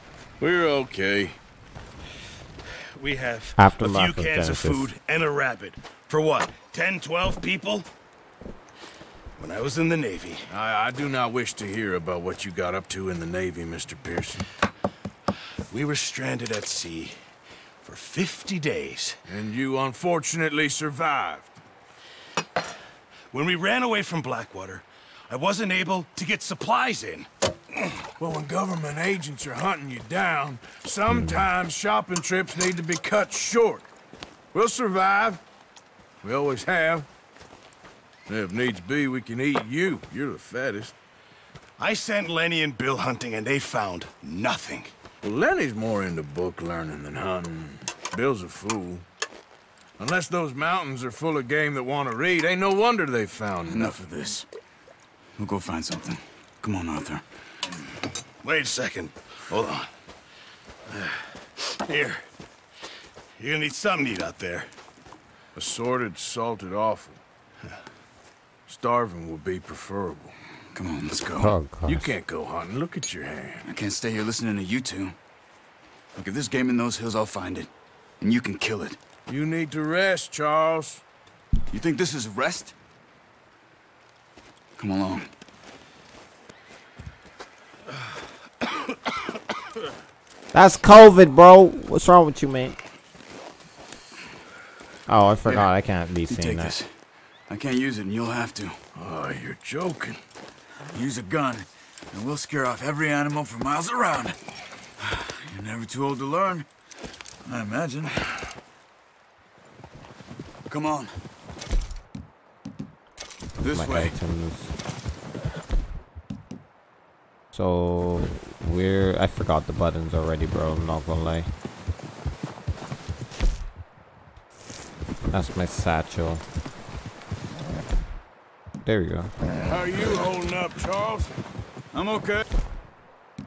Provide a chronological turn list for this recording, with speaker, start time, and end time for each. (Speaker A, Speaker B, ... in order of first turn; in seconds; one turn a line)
Speaker A: 0.4-1.4
Speaker B: 2.9-7.9
Speaker C: 3.6-4.9
Speaker B: 9.4-10.4
Speaker A: 10.5-14.4
Speaker B: 15.7-17.2
Speaker B: 17.8-19.2
Speaker A: 19.2-21.6
Speaker B: 23.3-27.3
Speaker A: 28.2-33.9
Speaker C: 31.1-31.4
Speaker A: 34.5-35.4
Speaker A: 36.2-37.1
Speaker A: 38.3-40.9
Speaker B: 41.8-44.9
Speaker A: 45.2-49.0
Speaker A: 50.0-54.0
Speaker D: 53.6-54.5
Speaker D: 55.4-57.2
Speaker B: 58.4-59.9
Speaker B: 60.9-62.2
Speaker B: 63.4-64.7
Speaker A: 65.5-67.2
Speaker A: 68.7-70.3
Speaker D: 70.7-71.5
Speaker C: 71.4-72.1
Speaker A: 71.8-73.6
Speaker D: 73.6-75.2
Speaker D: 76.2-79.0
Speaker A: 79.3-81.0
Speaker D: 81.7-82.7
Speaker D: 84.8-85.3
Speaker C: 90.5-92.8
Speaker C: 95.1-96.7
Speaker D: 96.3-97.0
Speaker D: 97.5-98.8
Speaker A: 98.9-100.2
Speaker D: 100.9-104.4
Speaker D: 105.0-106.7
Speaker D: 107.4-108.2
Speaker D: 110.7-111.2
Speaker D: 113.6-114.1
Speaker C: 113.7-114.7
Speaker C: 117.5-121.5
Speaker C: 125.3-126.4
Speaker C: 128.8-129.3
Speaker A: 129.6-131.3
Speaker D: 131.9-132.4